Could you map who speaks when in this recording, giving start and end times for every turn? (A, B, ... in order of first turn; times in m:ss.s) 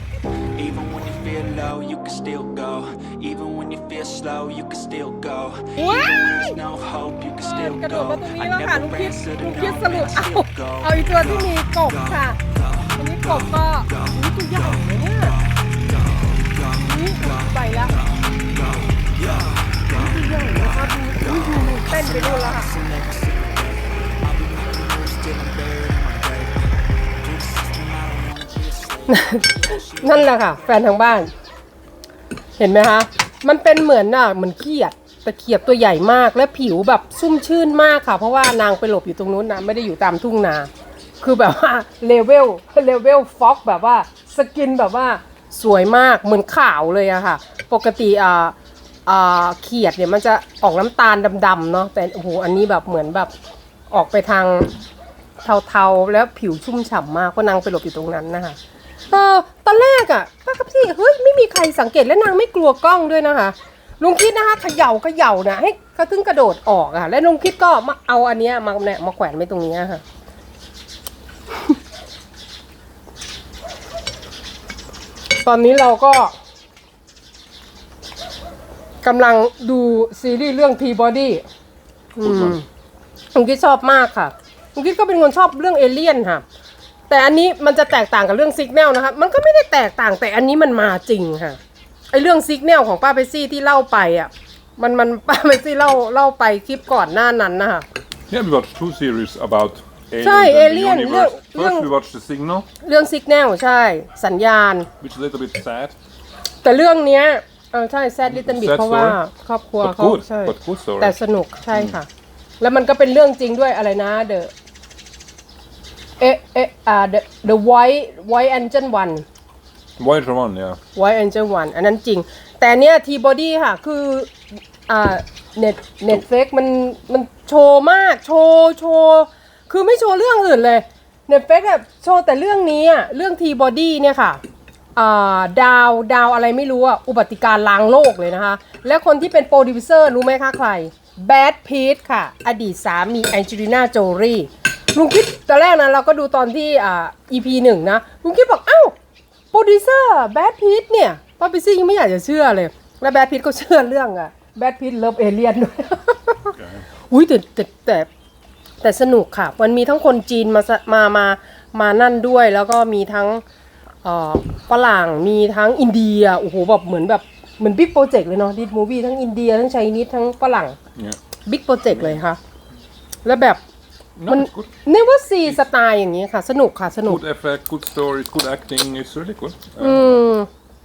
0:00.4-0:17.4 A
0:05.8-0:06.6 B
0:07.4-0:12.4 B
0:12.9-0:15.4 B
0:16.8-0:18.0 B
0:17.9-0:30.6 A
0:19.9-0:22.8 B
0:29.1-0:31.3 B
0:32.6-0:48.6 B
0:49.1-0:53.3 B
0:53.9-0:54.7 B
0:55.4-0:58.6 B
0:59.1-1:10.0 B
1:15.4-1:16.4 B
1:19.0-1:21.4 B
1:22.2-1:22.7 B
1:22.2-1:22.6 C
1:23.3-1:26.4 B
1:27.1-1:31.6 B
1:32.1-1:37.9 B
1:38.3-1:42.7 C
1:40.2-1:41.9 B
1:42.8-1:44.9 B
1:45.0-1:46.0 C
1:46.6-1:52.1 B
1:48.3-1:49.2 C
1:49.8-1:51.2 C
1:51.7-1:52.0 C
1:52.6-1:54.5 B
1:56.2-1:59.2 B
2:00.0-2:00.8 C
2:01.0-2:14.4 B
2:15.0-2:29.0 B
2:29.5-2:36.6 B
2:37.1-2:38.1 B
2:38.8-2:43.4 B
2:44.0-2:50.8 B
2:51.5-2:52.4 B
2:51.9-2:52.2 C
2:53.2-2:53.6 B
2:54.2-2:54.7 C
2:54.3-2:57.2 B
2:57.0-3:00.2 C
2:59.8-3:00.5 B